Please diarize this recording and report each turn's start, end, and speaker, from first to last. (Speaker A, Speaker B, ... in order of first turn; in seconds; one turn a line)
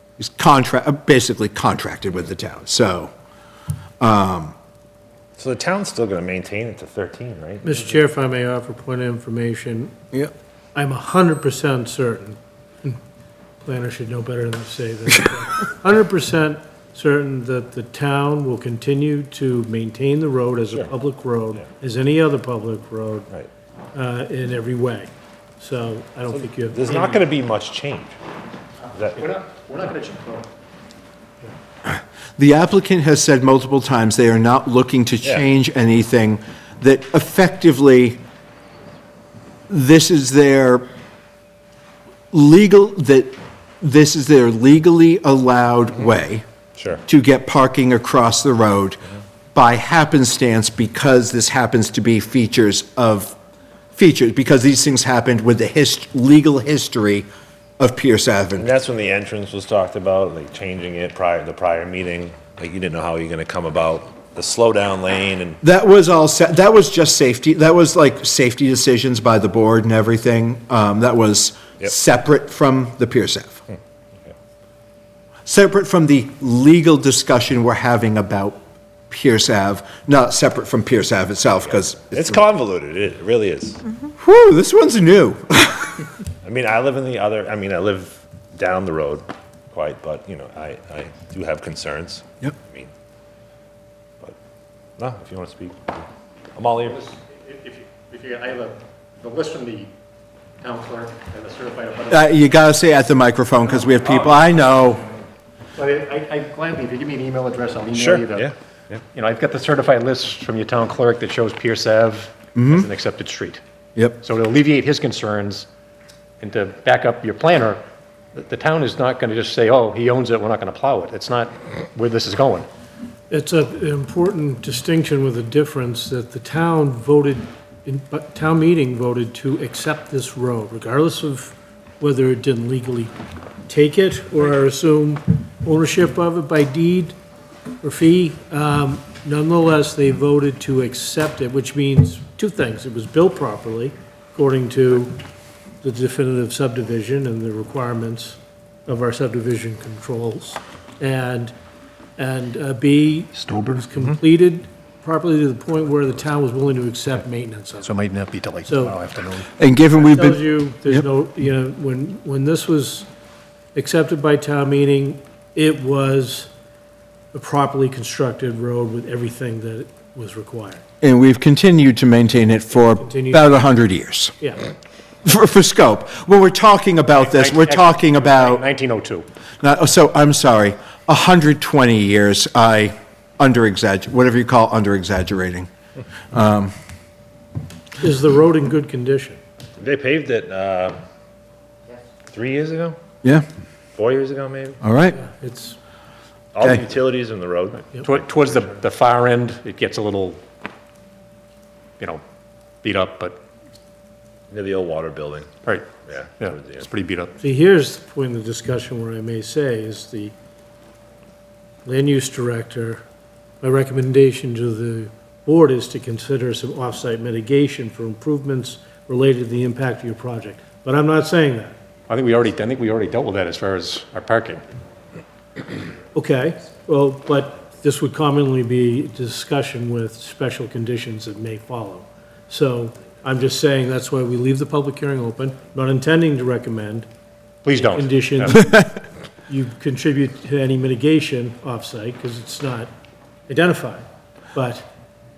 Speaker A: 0.2-3.1
Speaker A: 4.0-4.5
Speaker B: 5.4-7.8
Speaker C: 7.6-9.9
Speaker C: 10.8-13.0
Speaker C: 13.6-23.3
Speaker C: 23.9-27.2
Speaker B: 26.3-28.2
Speaker B: 28.9-29.3
Speaker D: 29.2-30.5
Speaker A: 31.9-38.2
Speaker A: 39.7-40.9
Speaker A: 42.3-46.5
Speaker B: 46.8-47.0
Speaker A: 47.0-49.0
Speaker A: 49.5-53.4
Speaker A: 54.0-57.3
Speaker A: 57.8-58.7
Speaker B: 58.6-65.6
Speaker A: 65.6-73.7
Speaker A: 75.5-82.4
Speaker B: 82.1-83.9
Speaker A: 84.2-86.0
Speaker B: 86.4-92.9
Speaker B: 95.0-96.0
Speaker B: 96.5-97.0
Speaker D: 96.9-99.9
Speaker D: 100.6-102.3
Speaker A: 102.1-105.1
Speaker D: 105.8-108.5
Speaker B: 107.9-109.0
Speaker D: 109.1-113.6
Speaker A: 112.6-112.9
Speaker D: 114.2-115.7
Speaker D: 116.4-117.8
Speaker D: 118.3-122.7
Speaker C: 123.3-133.1
Speaker C: 133.7-137.2
Speaker C: 137.8-145.2
Speaker C: 145.8-151.5
Speaker C: 152.2-157.9
Speaker D: 157.8-159.5
Speaker C: 158.7-159.0
Speaker A: 159.6-161.1
Speaker C: 160.0-163.1
Speaker C: 163.8-166.5
Speaker C: 167.3-170.8
Speaker A: 171.0-174.4
Speaker C: 173.0-173.5
Speaker A: 175.2-178.6
Speaker D: 177.2-179.3
Speaker A: 179.6-185.7
Speaker A: 186.3-186.7
Speaker C: 188.0-189.4
Speaker B: 189.8-191.0
Speaker B: 192.3-193.0
Speaker B: 194.0-194.8
Speaker A: 194.8-195.2
Speaker C: 195.1-195.8
Speaker B: 196.5-198.1
Speaker D: 198.0-200.4
Speaker D: 202.8-203.4
Speaker B: 204.5-205.5
Speaker D: 205.6-207.4
Speaker B: 206.1-206.8
Speaker C: 207.4-210.3
Speaker C: 211.8-213.0
Speaker C: 213.6-221.8
Speaker D: 222.1-224.6
Speaker C: 226.1-237.1
Speaker D: 237.6-238.7
Speaker C: 237.9-238.9
Speaker C: 239.5-242.9
Speaker C: 243.5-244.9